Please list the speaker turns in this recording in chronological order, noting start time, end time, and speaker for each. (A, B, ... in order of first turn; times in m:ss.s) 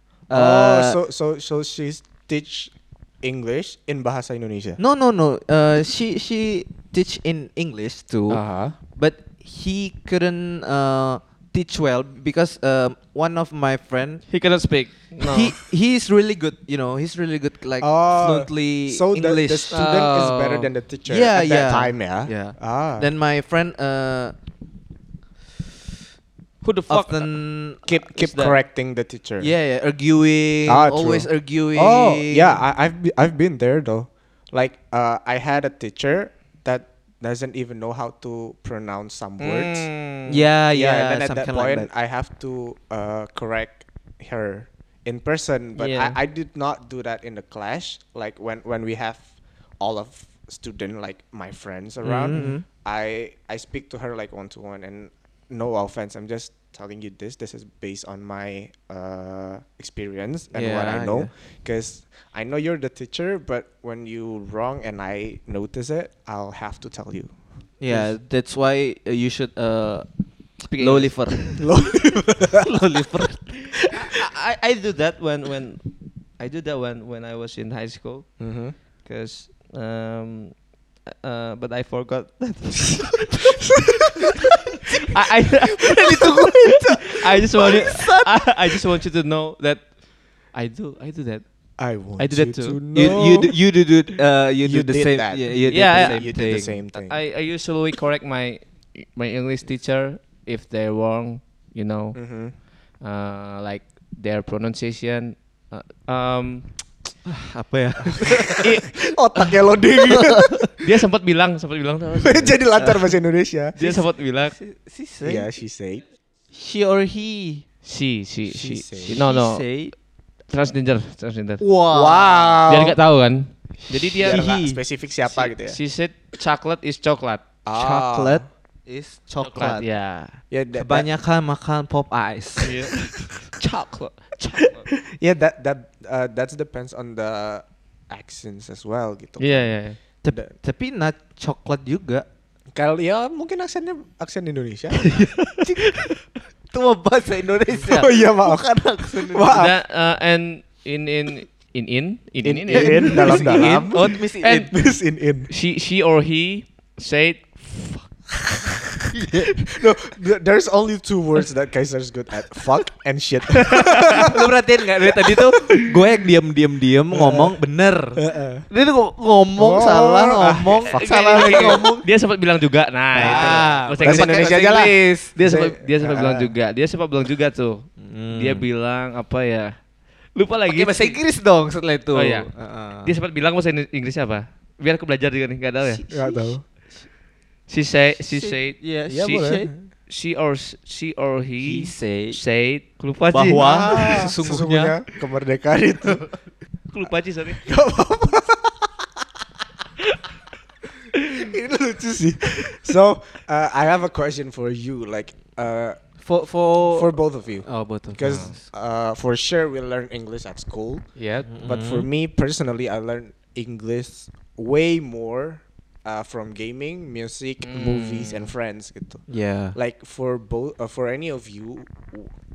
0:00.3-0:01.0 A
0:00.3-0:04.8 B
0:04.8-0:14.3 A
0:08.3-0:08.7 C
0:14.3-0:15.6 C
0:15.2-0:24.3 A
0:17.8-0:23.1 B
0:26.6-0:27.4 C
0:26.9-0:27.8 A
0:27.8-0:29.5 B
0:28.0-0:28.6 C
0:29.4-0:32.6 A
0:30.6-0:39.9 B
0:39.4-0:40.4 C
0:40.3-0:41.9 A
0:40.7-1:07.3 B
0:45.7-0:46.2 C
0:52.0-0:52.6 A
1:00.5-1:01.3 A
1:07.8-1:10.0 A
1:07.9-1:08.1 B
1:10.6-1:11.6 A
1:10.7-1:11.5 C
1:11.6-1:12.6 B
1:12.6-1:13.8 A
1:13.9-1:23.5 C
1:18.4-1:18.8 B
1:25.0-1:33.1 C
1:25.7-1:28.8 A
1:31.8-1:33.6 B
1:32.9-1:36.8 A
1:34.6-1:37.2 B
1:35.7-1:46.8 C
1:42.1-1:42.6 B
1:47.2-1:48.9 A
1:48.5-1:50.7 B
1:48.6-1:48.9 C
1:50.8-1:52.6 C
1:52.2-1:54.0 B
1:53.8-1:54.5 C
1:54.4-1:55.5 A
1:55.2-1:56.0 B
1:56.5-1:57.6 A
1:57.8-1:59.7 C
1:58.5-1:59.2 B
1:59.1-1:59.9 A
2:00.5-2:01.6 C
2:01.6-2:02.6 A
2:01.9-2:03.0 B
2:02.7-2:04.4 C
2:03.8-2:04.8 A
2:04.2-2:05.8 B
2:05.2-2:07.4 C
2:07.6-2:08.4 B
2:07.7-2:09.8 A
2:09.4-2:10.4 C
2:10.5-2:11.1 B
2:10.7-2:12.7 A
2:12.6-2:14.9 C
2:15.0-2:19.7 B
2:19.4-2:20.0 C
2:20.2-2:22.2 A
2:22.7-2:25.3 B
2:25.4-2:26.1 C
2:25.6-2:25.9 A
2:26.7-2:29.6 A
2:27.8-2:29.8 B
2:29.5-2:34.7 C
2:32.4-2:35.5 B
2:32.7-2:34.7 A
2:35.5-2:38.3 C
2:39.2-2:39.5 A
2:39.7-2:44.3 B
2:44.1-2:52.0 A
2:47.1-2:47.6 B
2:48.2-2:48.6 B
2:49.6-2:51.9 B
2:50.9-2:59.8 C
2:53.1-2:55.3 A
2:53.1-2:56.5 B
2:58.0-2:58.6 A
3:00.3-3:01.2 C
3:00.7-3:03.1 A
3:02.1-3:02.5 C
3:03.0-3:06.0 C
3:05.8-3:06.7 A
3:06.1-3:06.6 B
3:07.7-3:09.4 C
3:08.3-3:09.7 A
3:09.1-3:09.9 B
3:10.1-3:14.2 C
3:11.6-3:12.4 A
3:13.3-3:15.0 A
3:13.5-3:16.3 B
3:16.9-3:17.6 C
3:17.6-3:18.9 B
3:21.3-3:42.3 B
3:26.2-3:28.6 A
3:28.2-3:28.6 C
3:31.2-3:31.5 C
3:31.4-3:32.0 A
3:37.6-3:38.5 C
3:39.3-3:39.8 A